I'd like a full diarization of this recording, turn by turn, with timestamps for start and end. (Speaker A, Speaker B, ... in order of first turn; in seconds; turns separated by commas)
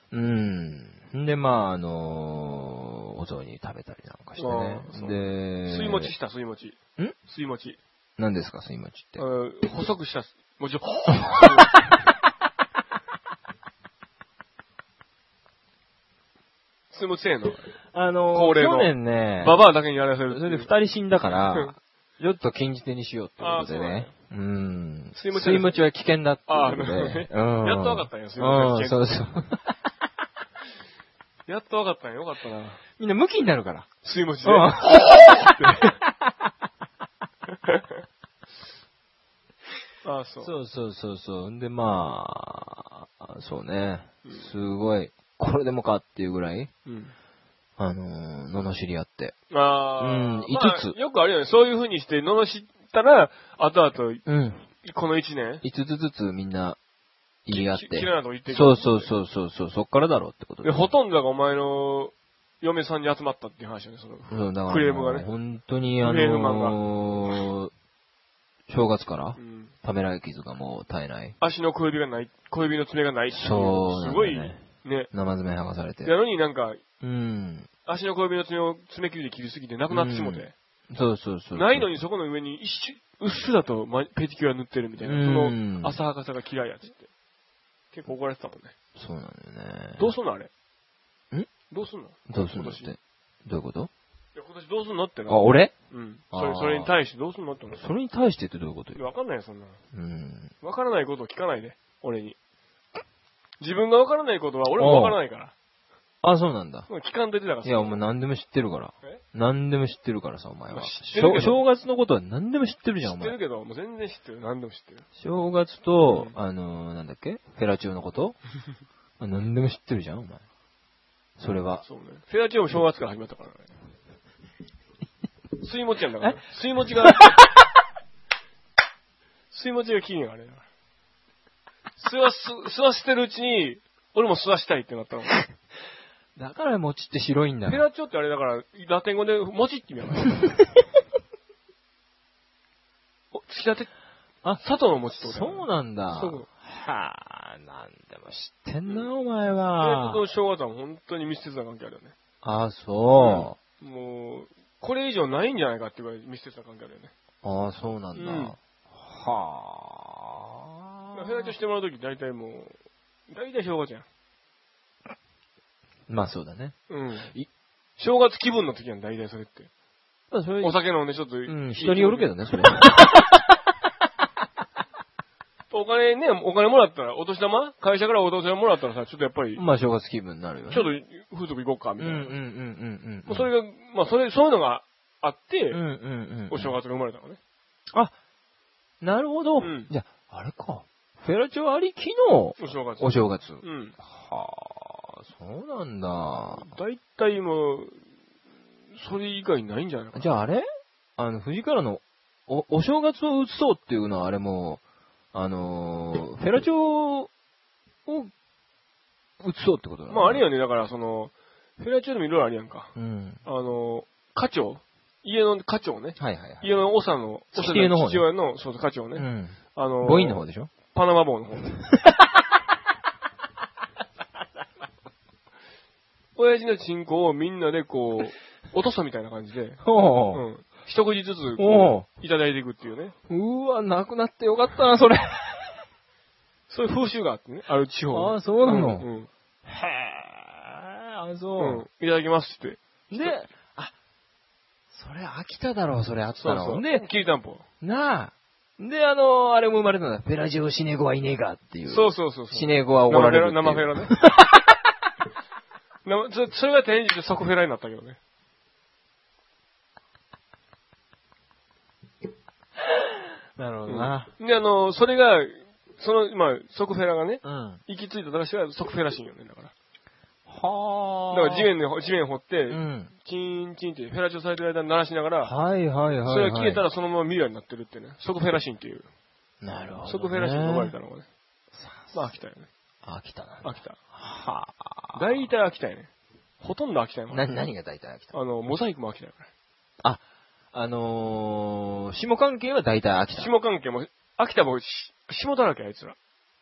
Speaker A: 0.1-6.1, Speaker B: 4.4-7.8, Speaker A: 8.2-9.2, Speaker B: 9.2-12.0, Speaker A: 11.1-11.9, Speaker B: 16.9-17.7, Speaker A: 17.9-19.6, Speaker B: 18.3-20.7, Speaker A: 20.3-29.7, Speaker B: 21.2-21.7, Speaker B: 23.4-24.1, Speaker B: 25.1-25.8, Speaker B: 26.5-29.1, Speaker B: 31.5-32.8, Speaker A: 33.0-33.9, Speaker B: 34.0-35.9, Speaker A: 34.4-36.5, Speaker B: 40.0-40.5, Speaker A: 40.4-46.7, Speaker B: 46.9-47.1, Speaker A: 47.8-49.4, Speaker B: 49.5-54.2, Speaker A: 50.0-51.0, Speaker A: 54.2-54.6, Speaker B: 54.8-55.6, Speaker A: 55.6-56.8, Speaker A: 57.5-60.9, Speaker B: 57.5-59.1, Speaker B: 60.6-65.3, Speaker A: 64.3-67.7, Speaker B: 66.0-66.8, Speaker A: 68.7-71.3, Speaker B: 69.3-69.7, Speaker B: 71.4-75.1, Speaker A: 73.3-76.1, Speaker B: 76.0-76.8, Speaker A: 77.0-77.7, Speaker B: 77.8-80.5, Speaker A: 79.9-81.9, Speaker B: 81.5-87.1, Speaker A: 85.0-86.0, Speaker B: 87.9-88.7, Speaker A: 89.0-90.1, Speaker B: 90.0-90.5, Speaker B: 91.7-92.9, Speaker A: 92.3-93.9, Speaker B: 94.3-97.8, Speaker A: 95.3-95.7, Speaker A: 96.3-96.9, Speaker A: 97.8-99.0, Speaker B: 98.9-99.8, Speaker A: 99.9-100.5, Speaker B: 100.6-102.3, Speaker B: 103.6-105.5, Speaker A: 104.8-105.2, Speaker A: 106.2-106.9, Speaker B: 106.9-108.0, Speaker A: 107.6-113.3, Speaker B: 110.7-111.6, Speaker B: 113.0-115.0, Speaker A: 115.2-118.4, Speaker B: 116.0-116.3, Speaker A: 119.2-120.4, Speaker A: 121.4-121.8, Speaker B: 121.8-123.7, Speaker B: 125.6-127.5, Speaker A: 127.0-127.4, Speaker B: 129.5-130.6, Speaker B: 132.0-135.4, Speaker A: 136.3-137.8, Speaker B: 137.7-140.5, Speaker B: 143.3-143.9, Speaker B: 144.6-146.5, Speaker A: 145.2-150.2, Speaker B: 149.8-152.1, Speaker A: 152.4-153.6, Speaker B: 153.2-157.1, Speaker A: 157.4-161.5, Speaker B: 158.1-158.6, Speaker B: 161.1-162.7, Speaker B: 163.3-164.1, Speaker A: 166.1-166.8, Speaker B: 166.9-167.3, Speaker B: 168.0-169.7, Speaker A: 170.3-170.8, Speaker B: 170.6-172.9, Speaker A: 171.4-173.4, Speaker B: 175.7-179.6, Speaker A: 179.6-180.8, Speaker B: 180.7-182.3, Speaker A: 182.0-183.5, Speaker B: 183.2-185.8, Speaker A: 185.7-186.8, Speaker B: 186.5-187.4, Speaker A: 189.0-196.7, Speaker B: 189.6-189.9, Speaker B: 192.6-193.9, Speaker B: 196.5-198.0, Speaker B: 198.9-200.3, Speaker A: 200.1-200.6, Speaker A: 201.2-204.8, Speaker A: 205.3-207.3, Speaker A: 208.1-208.3, Speaker A: 209.4-210.4, Speaker B: 210.1-212.9, Speaker A: 212.9-213.4, Speaker B: 213.4-221.8, Speaker A: 216.2-216.7, Speaker A: 217.5-218.2, Speaker A: 219.2-220.7, Speaker A: 222.0-222.3, Speaker B: 226.3-233.1, Speaker A: 229.8-230.4, Speaker A: 231.6-232.1, Speaker A: 233.3-235.8, Speaker B: 236.7-239.3, Speaker A: 238.1-239.1, Speaker A: 239.6-241.8, Speaker B: 241.6-243.4, Speaker A: 243.1-243.9, Speaker A: 244.9-247.1, Speaker B: 246.4-247.6, Speaker A: 247.8-254.9, Speaker B: 251.9-254.1, Speaker B: 256.0-258.2, Speaker A: 263.6-264.3, Speaker B: 263.9-269.7, Speaker A: 267.4-267.8, Speaker A: 270.5-271.7, Speaker B: 271.3-275.5, Speaker A: 272.7-273.1, Speaker A: 275.4-276.8, Speaker B: 276.3-279.1, Speaker A: 279.6-280.9, Speaker B: 280.1-281.3, Speaker A: 281.7-282.3, Speaker B: 282.1-282.7, Speaker A: 283.0-285.5, Speaker B: 283.6-284.0, Speaker B: 285.1-286.1, Speaker B: 286.6-287.5, Speaker A: 287.3-288.3, Speaker B: 288.3-289.5, Speaker A: 290.7-293.5, Speaker B: 293.4-296.2